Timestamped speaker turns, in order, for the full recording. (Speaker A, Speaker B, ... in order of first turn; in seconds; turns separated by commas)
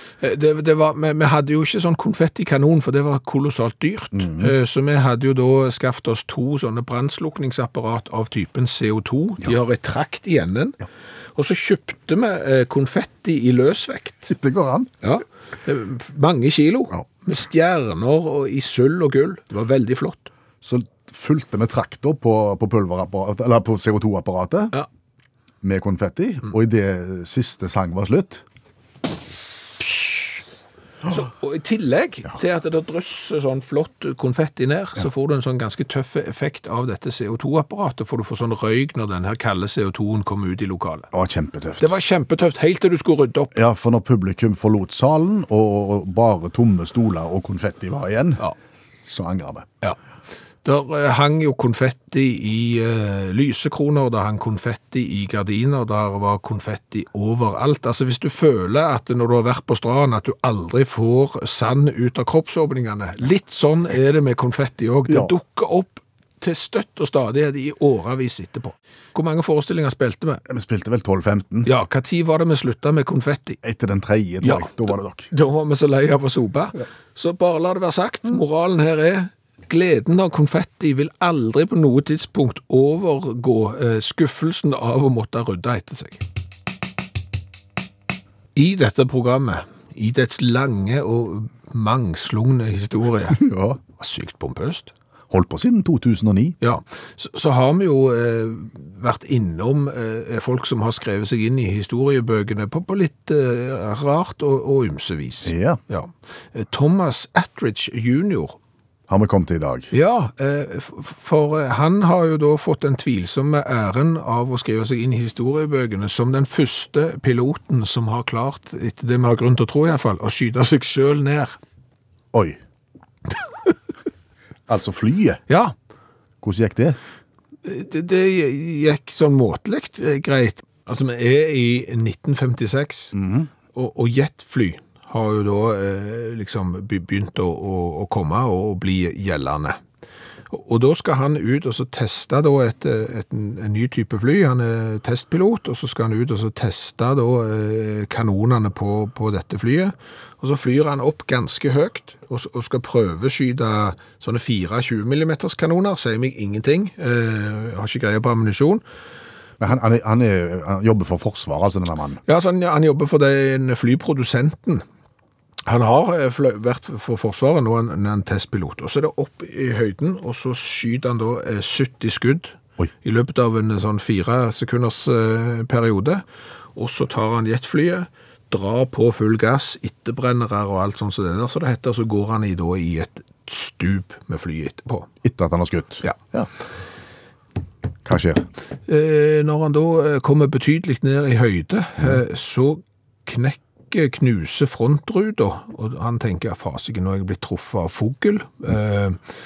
Speaker A: 0.2-10.8, Speaker B: 4.1-4.5, Speaker A: 11.3-14.3, Speaker B: 14.3-14.9, Speaker A: 15.0-20.3, Speaker B: 20.6-24.7, Speaker B: 25.6-28.4, Speaker A: 29.8-30.4, Speaker A: 31.1-41.1, Speaker B: 41.1-41.9, Speaker A: 41.8-43.5, Speaker B: 43.5-48.4, Speaker B: 49.0-49.7, Speaker A: 50.6-70.4, Speaker B: 70.5-71.7, Speaker A: 71.6-73.6, Speaker B: 73.6-75.3, Speaker A: 74.4-86.2, Speaker A: 88.5-93.4, Speaker B: 93.3-93.8, Speaker A: 94.0-94.9, Speaker B: 95.3-96.6, Speaker A: 96.6-108.6, Speaker B: 105.4-105.8, Speaker B: 109.1-109.9, Speaker A: 109.9-121.6, Speaker B: 122.3-122.6, Speaker B: 124.7-125.4, Speaker A: 125.5-125.7, Speaker B: 126.4-127.0, Speaker A: 127.6-133.1, Speaker B: 133.1-133.5, Speaker A: 133.7-139.8, Speaker A: 140.5-158.8, Speaker B: 159.6-162.2, Speaker A: 162.3-164.8, Speaker A: 165.7-176.2, Speaker A: 176.8-185.1, Speaker B: 185.2-186.5, Speaker B: 188.0-188.4, Speaker A: 188.9-199.2